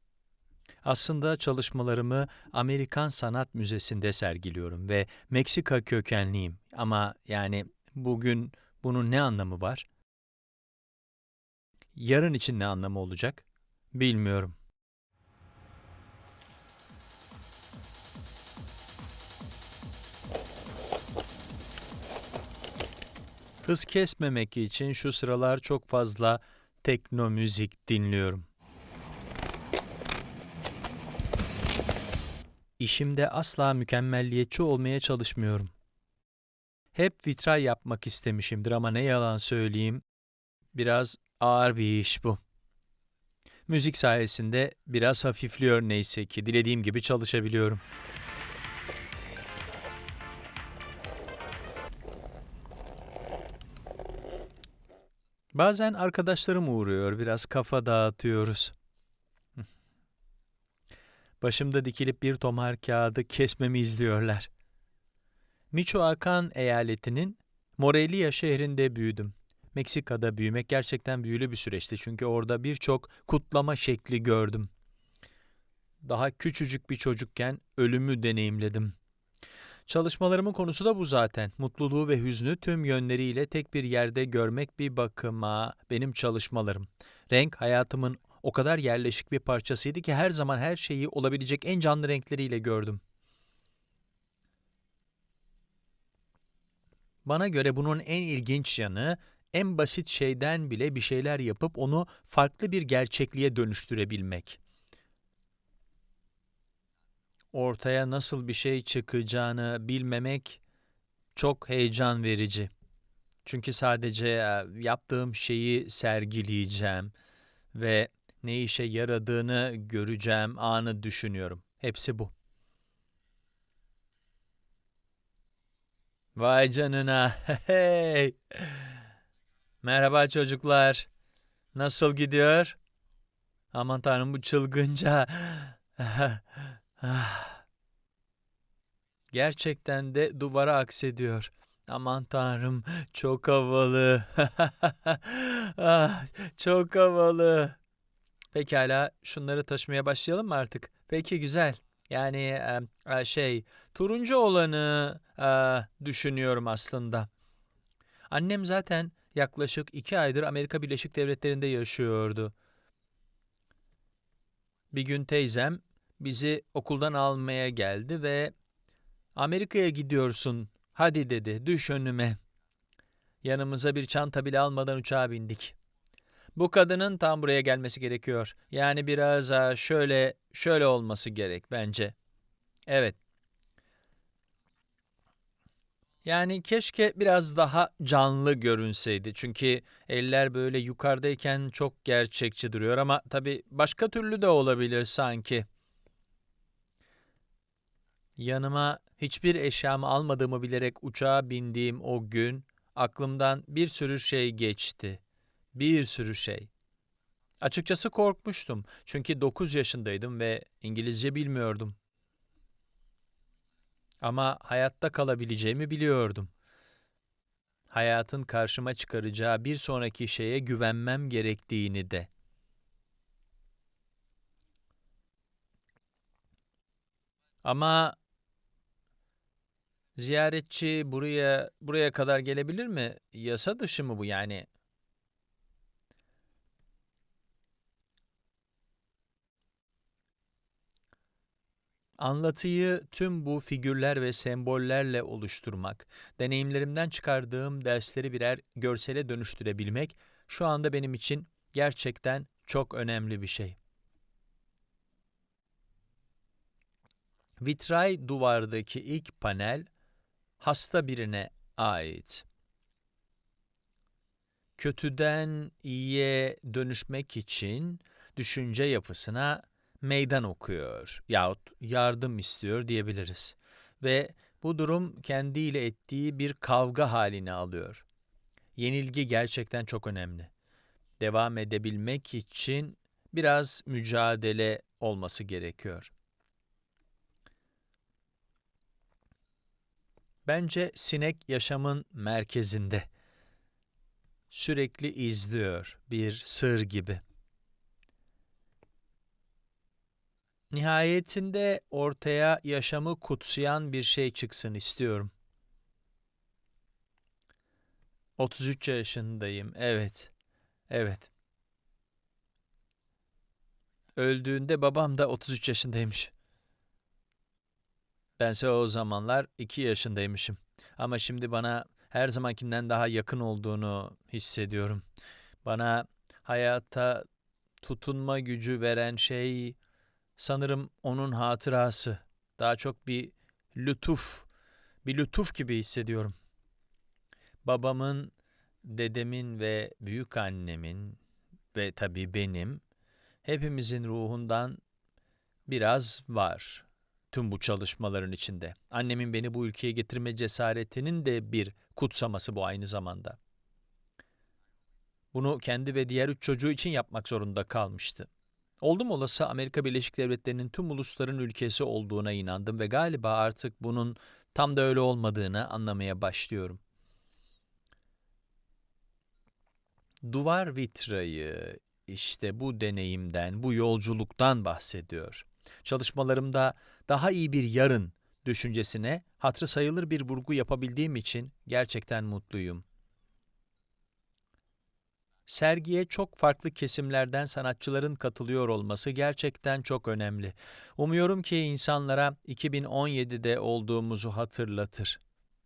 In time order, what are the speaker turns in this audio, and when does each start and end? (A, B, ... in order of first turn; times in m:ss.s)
0:00.8-0:09.9 A
0:12.0-0:14.6 A
0:23.6-0:28.5 A
0:32.8-0:35.7 A
0:36.9-0:40.0 A
0:40.7-0:42.4 A
0:43.7-0:47.8 A
0:55.5-0:58.7 A
1:01.4-1:04.5 A
1:05.7-1:14.7 A
1:16.0-1:18.9 A
1:19.9-1:33.0 A
1:37.2-1:44.6 A
1:47.5-1:50.6 A
1:51.4-1:52.7 A
1:53.4-1:57.1 A
1:57.7-2:02.3 A
2:06.4-2:09.0 A
2:09.8-2:11.1 A
2:11.8-2:12.8 A
2:13.7-2:17.6 A
2:19.3-2:27.8 A
2:28.5-2:37.3 A
2:38.3-2:42.5 A
2:44.9-2:48.5 A
2:49.4-2:52.4 A
2:53.4-2:55.8 A
2:56.6-3:02.2 A
3:02.9-3:03.2 A
3:06.2-3:15.6 A
3:18.4-3:25.2 A
3:25.7-3:26.7 A
3:27.6-3:32.0 A
3:34.2-3:36.5 A
3:37.9-3:42.3 A
3:47.6-3:48.2 A
3:50.2-3:54.7 A
4:02.2-4:13.8 A
4:17.6-4:19.9 A
4:20.6-4:22.5 A
4:24.8-4:38.1 A
4:38.8-4:40.5 A
4:41.2-4:46.1 A
4:50.5-4:53.1 A
4:54.5-4:57.2 A
5:00.7-5:05.3 A
5:08.4-5:10.3 A
5:10.9-5:11.3 A
5:14.2-5:16.3 A
5:18.4-5:25.0 A
5:25.6-5:27.2 A
5:27.8-5:29.8 A
5:30.4-5:34.5 A
5:35.0-5:36.3 A
5:37.6-5:41.2 A
5:41.7-5:42.8 A
5:43.4-5:44.8 A
5:45.7-5:53.4 A
5:55.3-5:58.3 A
5:58.8-6:06.8 A
6:10.2-6:22.8 A
6:25.5-6:35.2 A